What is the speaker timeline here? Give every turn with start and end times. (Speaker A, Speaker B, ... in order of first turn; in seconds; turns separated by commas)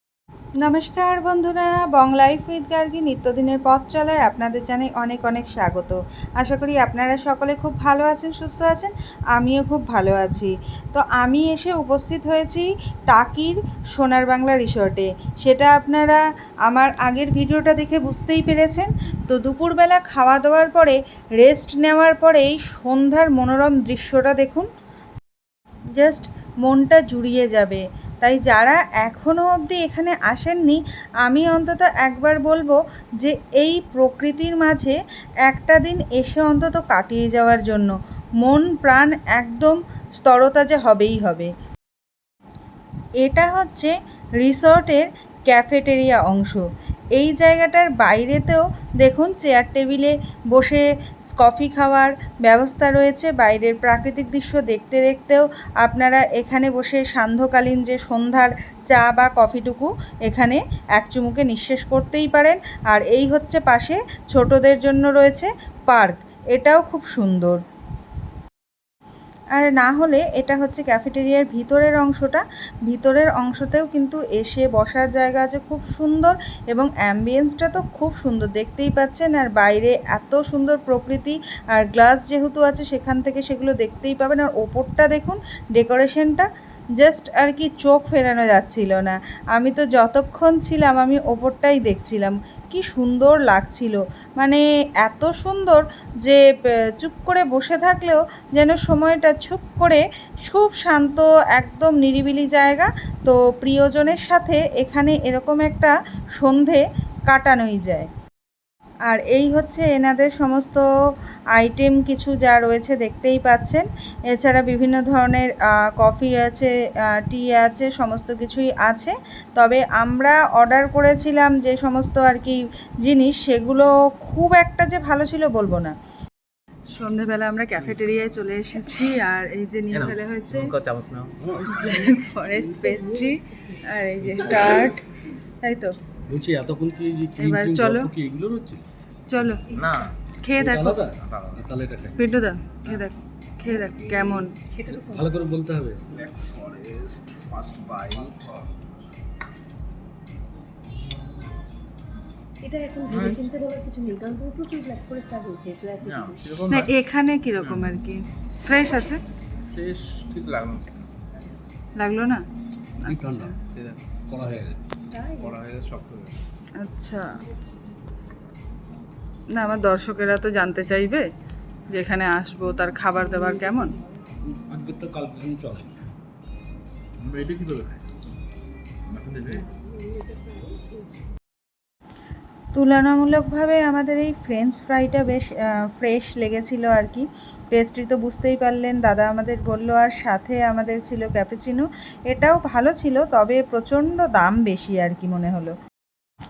Speaker A: 0.6-24.7, Speaker A: 25.9-41.5, Speaker A: 43.2-50.8, Speaker A: 51.4-67.6, Speaker A: 69.5-86.5, Speaker A: 87.0-108.1, Speaker A: 109.1-110.8, Speaker A: 111.5-125.9, Speaker A: 126.9-130.8, Speaker B: 129.9-131.4, Speaker C: 131.4-132.1, Speaker A: 131.6-135.1, Speaker D: 132.8-133.8, Speaker A: 135.6-135.9, Speaker C: 136.3-138.8, Speaker A: 137.4-138.1, Speaker A: 139.3-139.7, Speaker B: 139.7-140.1, Speaker A: 140.4-141.0, Speaker C: 140.6-142.2, Speaker B: 141.2-141.6, Speaker A: 142.2-144.5, Speaker D: 143.8-145.3, Speaker C: 144.9-146.0, Speaker B: 146.1-148.5, Speaker D: 152.6-156.4, Speaker B: 153.1-153.4, Speaker B: 156.0-156.9, Speaker A: 156.7-159.2, Speaker B: 157.6-158.0, Speaker B: 159.7-161.0, Speaker A: 162.0-162.4, Speaker C: 163.0-163.5, Speaker A: 163.0-163.6, Speaker B: 163.7-164.0, Speaker C: 164.3-164.8, Speaker D: 165.1-165.6, Speaker B: 165.4-166.4, Speaker A: 166.8-167.4, Speaker A: 169.5-171.3, Speaker A: 171.9-173.9, Speaker C: 174.5-175.9, Speaker B: 177.2-178.0, Speaker B: 179.1-179.6, Speaker D: 179.5-181.1, Speaker A: 182.7-195.8